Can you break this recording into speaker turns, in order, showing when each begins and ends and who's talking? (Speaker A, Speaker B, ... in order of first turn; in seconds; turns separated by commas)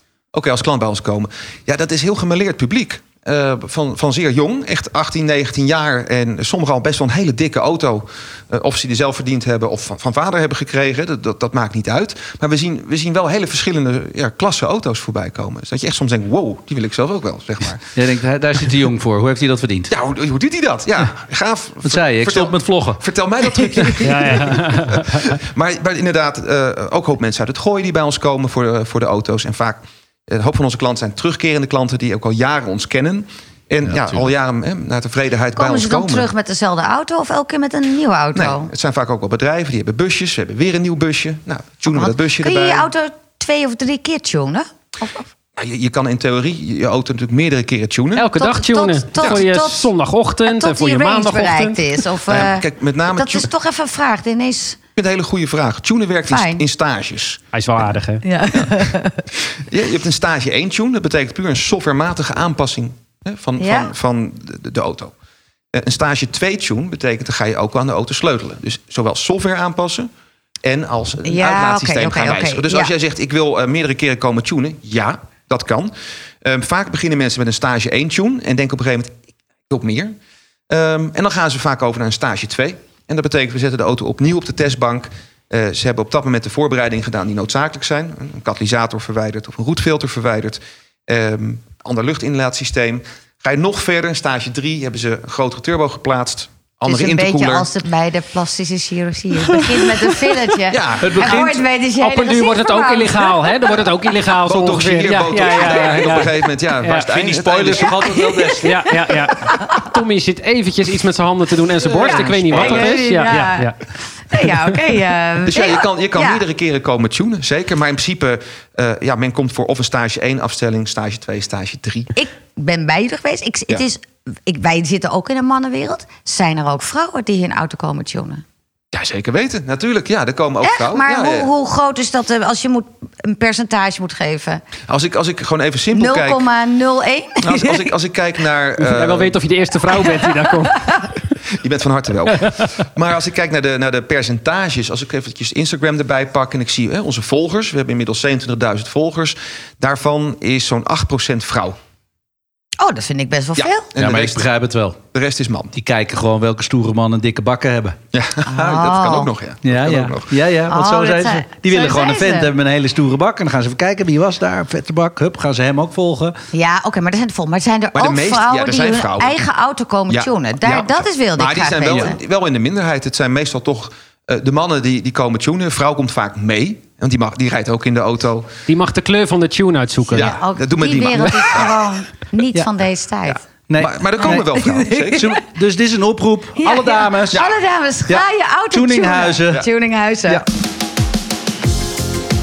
Speaker A: 0.3-17.9, Speaker B: 17.9-19.9, Speaker A: 19.9-36.3, Speaker B: 21.8-24.5, Speaker C: 24.0-25.2, Speaker D: 35.6-38.7, Speaker A: 38.4-42.9, Speaker D: 41.9-45.3, Speaker A: 45.6-48.3, Speaker C: 48.2-51.8, Speaker D: 48.3-49.9, Speaker D: 50.4-54.8, Speaker A: 52.3-53.5, Speaker A: 55.0-57.4, Speaker D: 56.3-56.6, Speaker C: 57.5-58.2, Speaker D: 58.2-59.2, Speaker A: 59.6-65.1, Speaker D: 63.6-63.9, Speaker A: 65.7-70.1, Speaker A: 70.6-79.2, Speaker D: 71.2-72.9, Speaker A: 79.7-80.2, Speaker A: 80.7-97.7, Speaker D: 96.9-103.7, Speaker B: 99.4-99.8, Speaker A: 100.7-101.5, Speaker B: 101.0-101.6, Speaker C: 102.0-107.1, Speaker A: 104.4-108.1, Speaker B: 107.1-108.7, Speaker D: 107.8-109.9, Speaker C: 108.6-113.8, Speaker D: 111.8-116.4, Speaker B: 112.0-113.0, Speaker A: 115.4-122.1, Speaker D: 122.2-128.4, Speaker A: 128.9-131.5, Speaker D: 130.6-134.6, Speaker A: 134.9-136.5, Speaker D: 135.9-137.9, Speaker A: 137.4-139.3, Speaker C: 138.8-140.9, Speaker D: 140.1-141.0, Speaker A: 141.5-151.8, Speaker C: 142.3-142.7, Speaker D: 152.8-153.9, Speaker A: 153.6-154.5, Speaker B: 154.0-155.0, Speaker A: 155.1-155.7, Speaker B: 155.7-158.0, Speaker A: 158.1-160.4, Speaker D: 158.4-159.3, Speaker B: 159.6-166.4, Speaker D: 160.7-162.5, Speaker D: 166.5-172.2, Speaker A: 167.9-169.5, Speaker A: 170.1-178.5, Speaker C: 178.7-180.3, Speaker A: 180.1-181.8, Speaker D: 180.1-183.4, Speaker A: 183.3-185.3, Speaker B: 183.7-184.5, Speaker D: 184.2-185.4, Speaker B: 185.1-187.5, Speaker D: 186.6-190.4, Speaker B: 188.1-189.7